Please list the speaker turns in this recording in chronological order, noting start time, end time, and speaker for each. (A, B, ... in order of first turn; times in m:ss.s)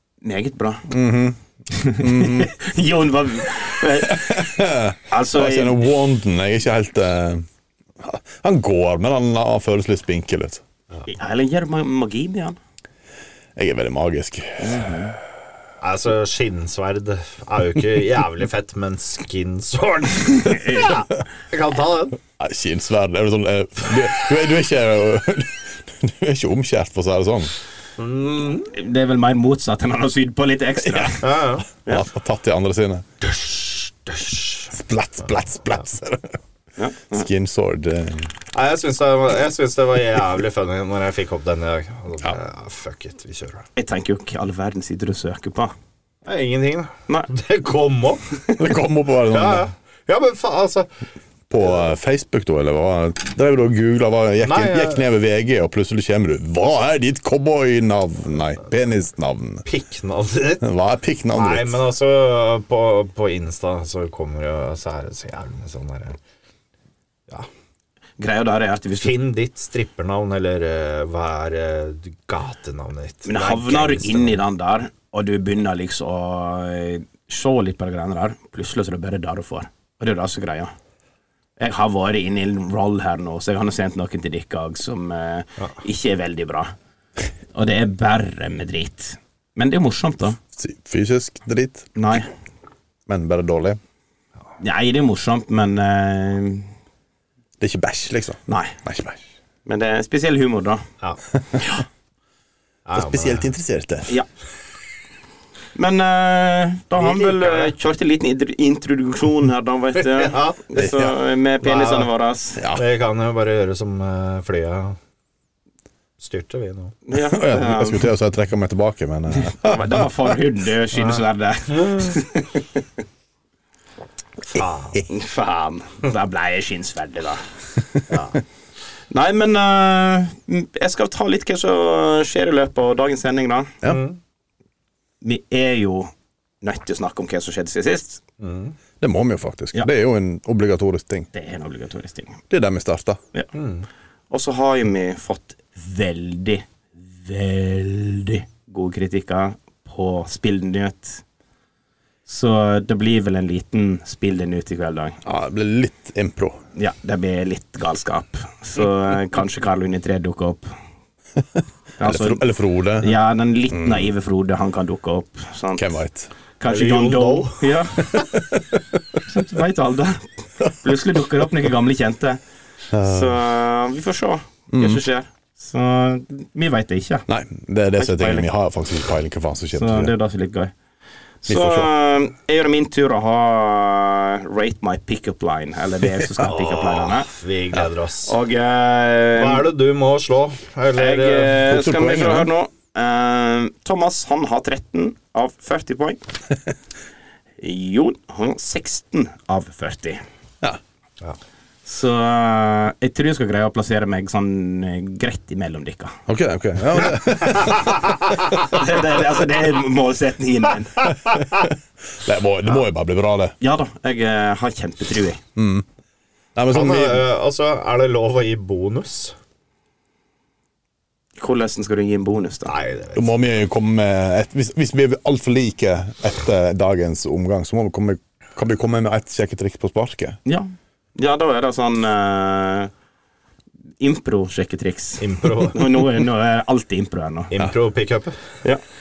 0:00.2-0:00.8 A
0:00.9-0:02.5 B
0:01.7-0:04.5 A
0:04.0-0:07.4 B
0:05.1-0:05.8 A
0:08.0-0:10.6 B
0:11.1-0:12.6 A
0:13.6-0:14.8 B
0:14.6-0:15.2 A
0:15.8-0:22.2 C
0:20.4-0:21.0 A
0:22.4-0:27.5 B
0:28.0-0:28.7 C
0:28.7-0:31.3 A
0:30.8-0:31.2 B
0:31.2-0:31.7 C
0:31.8-0:33.0 B
0:33.2-0:34.7 C
0:34.7-0:36.4 B
0:36.8-0:37.2 A
0:37.1-0:38.3 B
0:38.5-0:43.6 C
0:43.8-0:45.7 A
0:46.2-0:48.2 C
0:48.6-0:49.6 B
0:49.3-0:50.9 C
0:51.5-0:59.6 B
0:54.4-0:55.0 C
0:59.6-1:00.6 C
1:00.6-1:01.8 B
1:01.3-1:06.2 C
1:08.2-1:09.1 A
1:09.0-1:14.4 C
1:13.2-1:20.7 A
1:21.6-1:26.7 A
1:27.5-1:30.4 A
1:30.5-1:31.9 B
1:32.0-1:32.3 A
1:33.1-1:33.8 B
1:34.6-1:36.7 A
1:37.6-1:39.2 B
1:38.5-1:38.7 A
1:39.6-1:40.8 A
1:42.8-1:43.5 C
1:42.9-1:44.1 B
1:45.7-1:52.6 A
1:47.0-1:47.7 C
1:50.0-1:50.7 C
1:50.7-1:51.1 B
1:51.6-1:52.1 C
1:52.6-1:52.8 B
1:52.7-1:55.0 C
1:56.2-1:56.9 C
1:57.0-1:58.0 A
1:57.1-2:00.1 B
1:59.3-2:02.8 A
2:01.7-2:02.1 C
2:04.5-2:05.0 C
2:05.1-2:07.4 A
2:08.1-2:08.4 C
2:09.1-2:13.8 A
2:13.8-2:14.2 C
2:15.2-2:18.2 A
2:18.4-2:18.7 C
2:19.0-2:21.3 B
2:21.3-2:22.4 A
2:22.5-2:23.2 B
2:23.5-2:23.8 C
2:24.3-2:31.2 A
2:32.3-2:35.2 A
2:35.2-2:36.6 B
2:36.8-2:40.7 A
2:42.0-2:42.4 A
2:42.0-2:43.1 B
2:43.0-2:46.0 A
2:43.7-2:44.1 B
2:45.8-2:46.3 B
2:46.6-2:48.2 A
2:46.6-2:47.7 C
2:48.1-2:49.0 B
2:49.2-2:52.4 A
2:52.9-2:53.3 B
2:53.0-2:57.2 A
2:54.7-2:55.0 B
2:57.3-3:00.1 B
2:58.0-2:58.5 A
2:59.7-3:00.7 A
3:01.4-3:07.3 A
3:01.5-3:01.9 B
3:06.4-3:08.3 C
3:08.2-3:09.6 A
3:09.4-3:11.6 C
3:10.9-3:16.2 A
3:11.6-3:12.5 B
3:17.6-3:20.2 A
3:21.8-3:26.2 A
3:26.3-3:28.1 B
3:28.4-3:31.1 A
3:31.6-3:33.5 B
3:33.6-3:35.4 A
3:35.6-3:35.8 B
3:36.5-3:37.2 B
3:36.7-3:39.3 C
3:41.4-3:42.7 A
3:42.6-3:43.3 C
3:43.1-3:50.4 B
3:50.4-3:52.9 A
3:54.0-3:57.5 A
3:55.2-3:55.8 C
3:57.5-3:58.4 C